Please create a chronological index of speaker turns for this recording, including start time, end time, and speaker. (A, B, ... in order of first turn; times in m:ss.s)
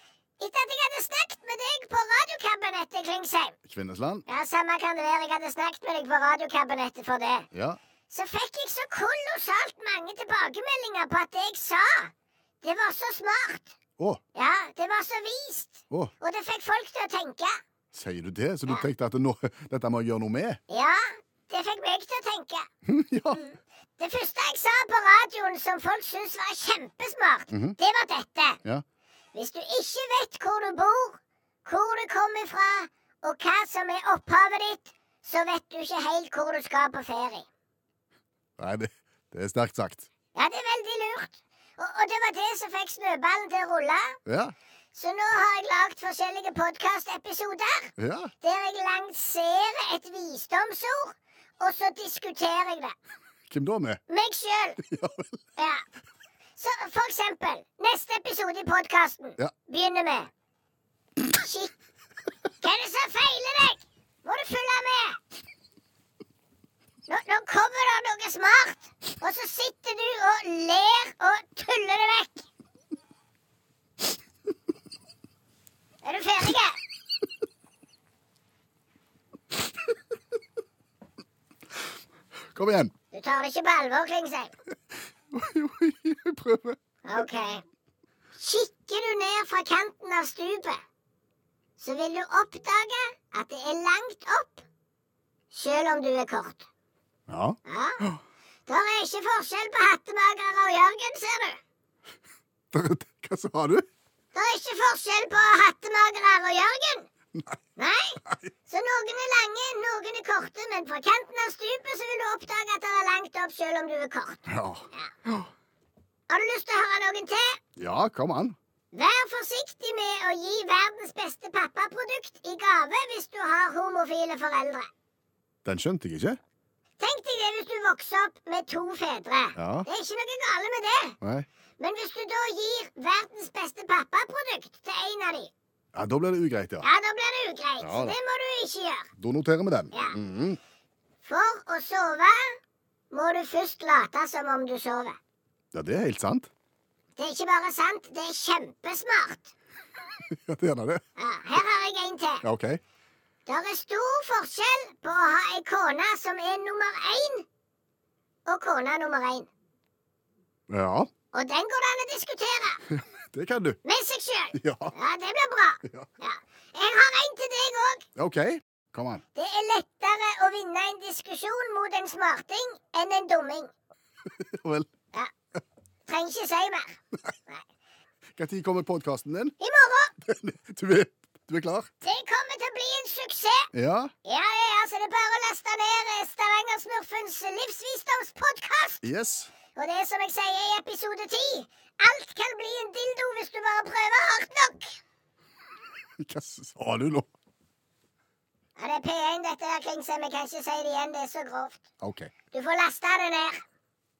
0:00.4-0:03.6 A
0:03.6-0:04.2 B
0:04.2-0:07.5 A
0:07.5-0:07.8 B
0:08.1-0:13.7 A
0:14.3-0:17.6 A
0:17.9-0:20.6 B
0:20.7-0:22.7 A
0:22.8-0:23.4 B
0:23.3-0:28.6 A
0:27.5-0:27.8 B
0:29.3-0:37.5 A
0:38.6-0:40.1 B
0:40.3-0:44.2 A
0:44.2-0:44.5 B
0:44.9-0:52.9 A
0:48.0-0:48.3 B
0:53.5-0:54.0 B
0:54.1-0:54.8 A
0:54.8-0:55.2 B
0:55.6-0:55.8 A
0:56.6-1:00.3 A
1:01.2-1:01.7 A
1:02.6-1:05.2 A
1:07.1-1:12.5 A
1:16.0-1:16.8 A
1:22.5-1:22.9 B
1:23.1-1:24.5 A
1:25.3-1:26.8 B
1:27.0-1:27.6 A
1:28.4-1:30.8 A
1:31.8-1:34.6 A
1:35.5-1:36.7 A
1:37.3-1:38.2 B
1:37.6-1:38.0 A
1:38.7-1:41.6 A
1:42.7-1:43.8 B
1:44.3-1:47.1 A
1:47.8-1:54.4 A
1:54.5-1:55.5 B
1:56.3-1:57.6 A
1:57.8-1:58.6 B
1:58.9-2:04.9 A
2:05.6-2:06.4 B
2:07.0-2:11.2 A
2:09.6-2:09.9 B
2:11.2-2:11.5 B
2:11.8-2:15.5 A
2:15.9-2:16.9 B
2:16.8-2:19.1 A
2:17.8-2:18.2 B
2:19.2-2:20.6 B
2:21.2-2:22.6 A
2:23.1-2:25.2 A
2:25.7-2:26.5 B
2:27.2-2:29.5 A
2:30.3-2:31.0 B
2:31.2-2:32.4 A
2:32.4-2:32.8 B
2:33.4-2:37.4 A
2:38.4-2:39.5 A
2:40.7-2:41.1 B
2:41.3-2:42.8 A
2:42.9-2:43.8 B
2:43.8-2:48.0 A
2:44.5-2:44.9 B
2:48.2-2:49.2 B
2:49.4-2:53.7 A
2:54.3-2:54.9 B
2:56.1-2:57.6 A
2:58.3-2:59.6 B
2:59.6-3:00.1 A
3:00.2-3:01.9 B
3:02.0-3:03.7 A
3:03.7-3:04.1 B
3:04.2-3:09.0 A
3:09.0-3:09.5 B
3:09.7-3:15.0 A
3:16.2-3:17.3 B
3:18.8-3:21.8 A
3:22.0-3:22.3 B
3:22.5-3:23.6 A